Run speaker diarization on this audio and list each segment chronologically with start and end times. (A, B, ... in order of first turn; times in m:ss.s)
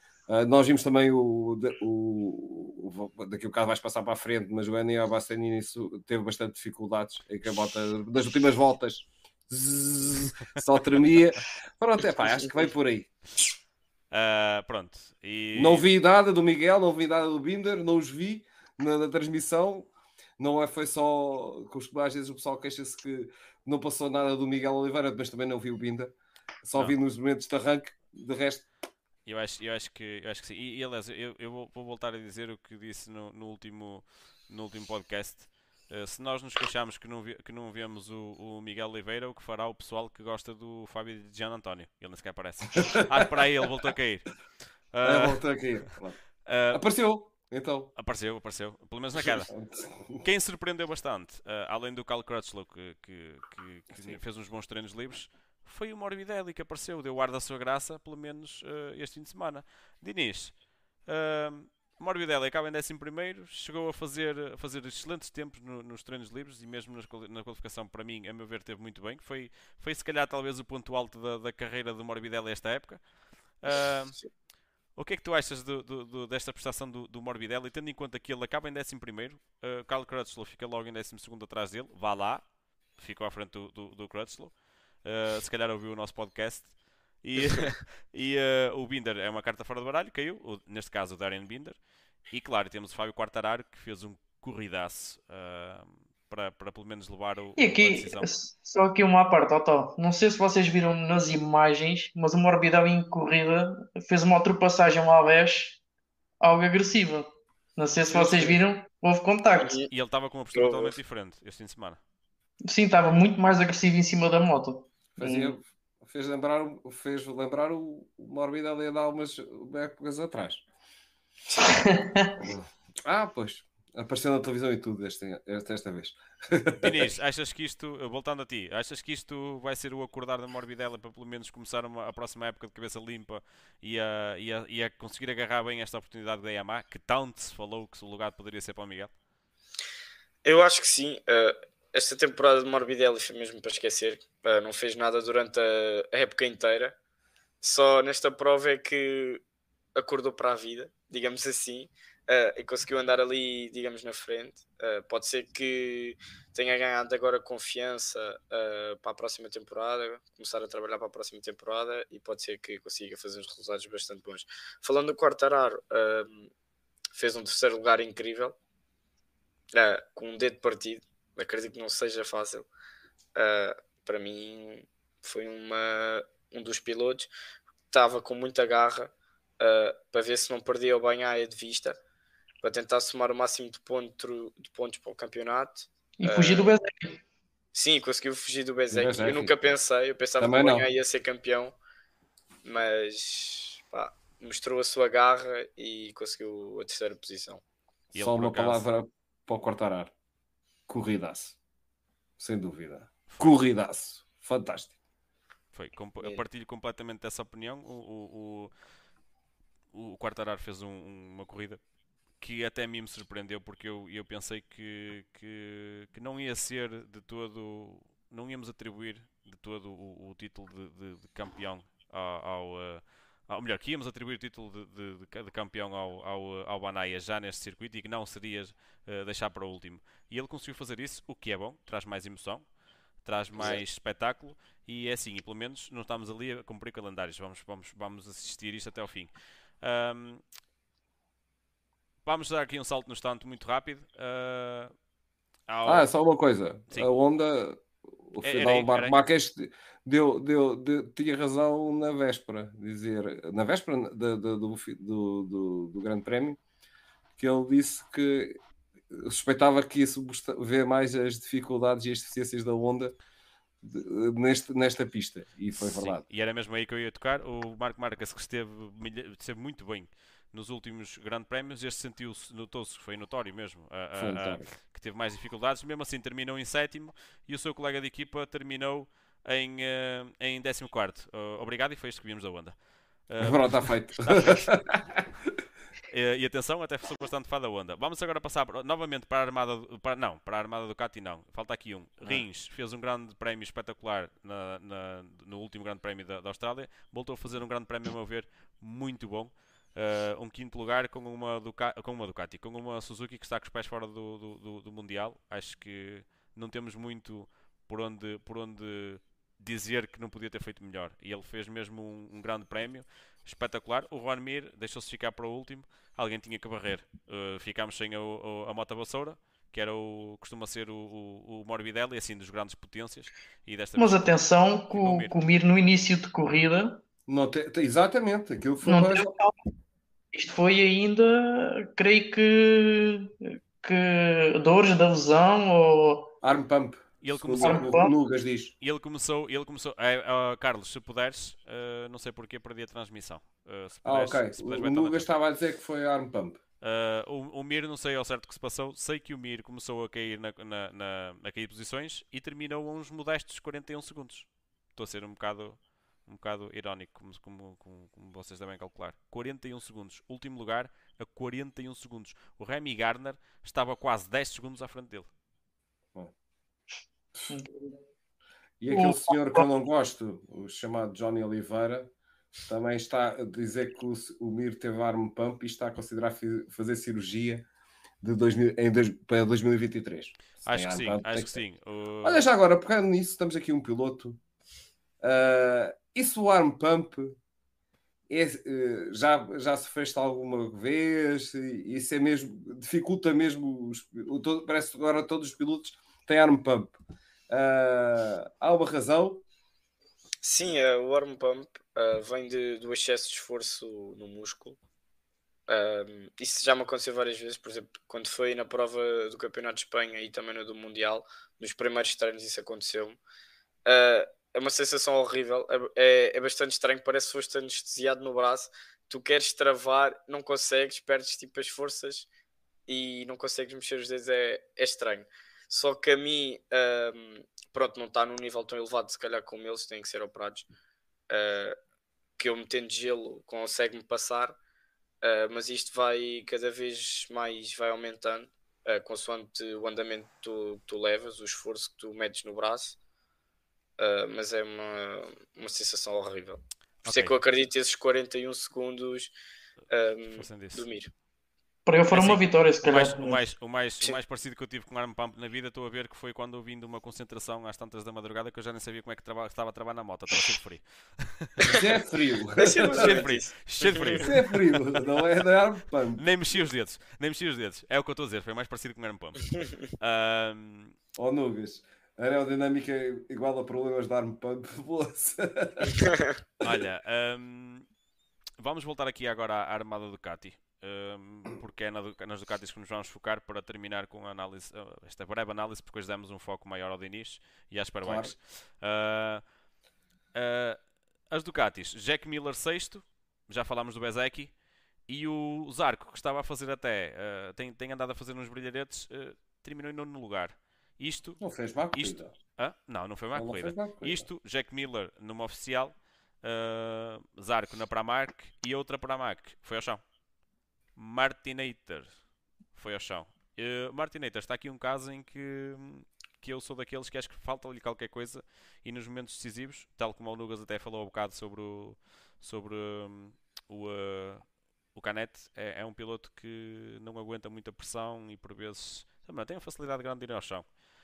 0:00.3-0:13.1 A
0:14.1-0:15.8 B
0:15.5-0:26.1 A
0:26.6-0:28.6 A
0:29.2-0:44.3 B
0:44.9-0:45.4 B
0:45.0-0:46.2 A
0:46.4-0:46.8 B
0:46.7-0:47.9 A
0:48.0-0:49.5 B
0:49.5-0:50.2 A
0:50.2-1:13.0 B
1:13.6-1:14.2 B
1:15.0-1:38.3 B
1:37.6-1:45.8 C
1:46.4-1:49.8 C
1:48.1-1:48.6 A
1:49.6-1:49.9 D
1:49.9-1:52.0 B
1:50.5-1:50.9 D
1:52.7-1:55.6 C
1:55.2-2:00.6 A
2:01.7-2:02.4 C
2:02.4-2:07.1 A
2:06.8-2:19.1 B
2:20.4-2:27.0 D
2:27.6-2:29.4 D
2:29.9-2:46.5 D
2:47.1-2:48.6 D
2:49.7-2:52.7 D
2:53.4-2:57.3 D
2:57.9-3:02.0 D
3:02.6-3:06.7 D
3:06.2-3:07.2 C
3:07.7-3:11.8 D
3:08.9-3:09.5 A
3:10.4-3:10.8 A
3:12.6-3:17.6 D
3:18.1-3:20.1 A
3:18.1-3:18.8 B
3:20.9-3:21.6 A
3:22.4-3:24.9 A
3:23.3-3:23.6 B
3:25.7-3:28.7 B
3:29.9-3:31.8 B
3:32.4-3:52.7 B
3:53.2-4:00.4 B
3:53.6-3:53.8 D
4:02.2-4:04.9 B
4:05.7-4:06.1 B
4:05.8-4:16.6 A
4:08.4-4:09.2 B
4:17.4-4:18.6 A
4:19.1-4:23.1 A
4:23.8-4:26.2 A
4:25.7-4:44.7 B
4:34.1-4:34.7 A
4:43.4-4:45.2 A
4:46.1-5:24.4 B
5:24.0-5:27.0 C
5:24.9-5:25.3 B
5:27.3-5:29.3 A
5:28.8-5:29.5 C
5:30.3-5:36.3 C
5:36.4-5:38.7 A
5:37.2-5:38.0 B
5:37.6-5:38.1 C
5:38.8-5:45.3 B
5:44.0-5:46.6 A
5:46.8-6:05.3 B
6:07.5-6:08.0 C
6:08.8-6:12.1 A
6:08.9-6:09.6 C
6:12.7-6:17.6 A
6:18.2-6:21.6 A
6:20.6-6:22.5 B
6:22.2-6:24.4 A
6:25.2-6:27.4 A
6:28.3-6:36.9 A
6:37.5-6:39.4 A
6:40.4-6:44.8 D
6:45.7-6:53.2 D
6:53.8-7:02.3 D
7:02.9-7:10.6 D
7:11.3-7:11.8 D
7:12.4-7:14.6 D
7:15.2-7:23.0 D
7:24.0-7:29.3 D
7:27.0-7:27.3 B
7:29.9-7:31.1 D
7:30.3-7:30.8 B
7:31.8-7:33.4 C
7:32.1-7:41.7 B
7:41.6-7:43.2 A
7:42.6-7:44.2 D
7:42.8-7:45.3 B
7:44.2-7:46.2 A
7:46.2-7:50.9 B
7:51.2-7:56.0 A
7:55.9-7:56.3 D
7:56.6-7:57.8 B
7:58.6-8:09.4 B
8:08.0-8:08.3 A
8:10.3-8:10.8 B
8:11.3-8:14.5 B
8:15.1-8:21.4 B
8:21.4-8:22.3 A
8:21.9-8:30.0 B
8:23.3-8:24.2 A
8:31.0-8:32.1 B
8:32.7-8:50.7 B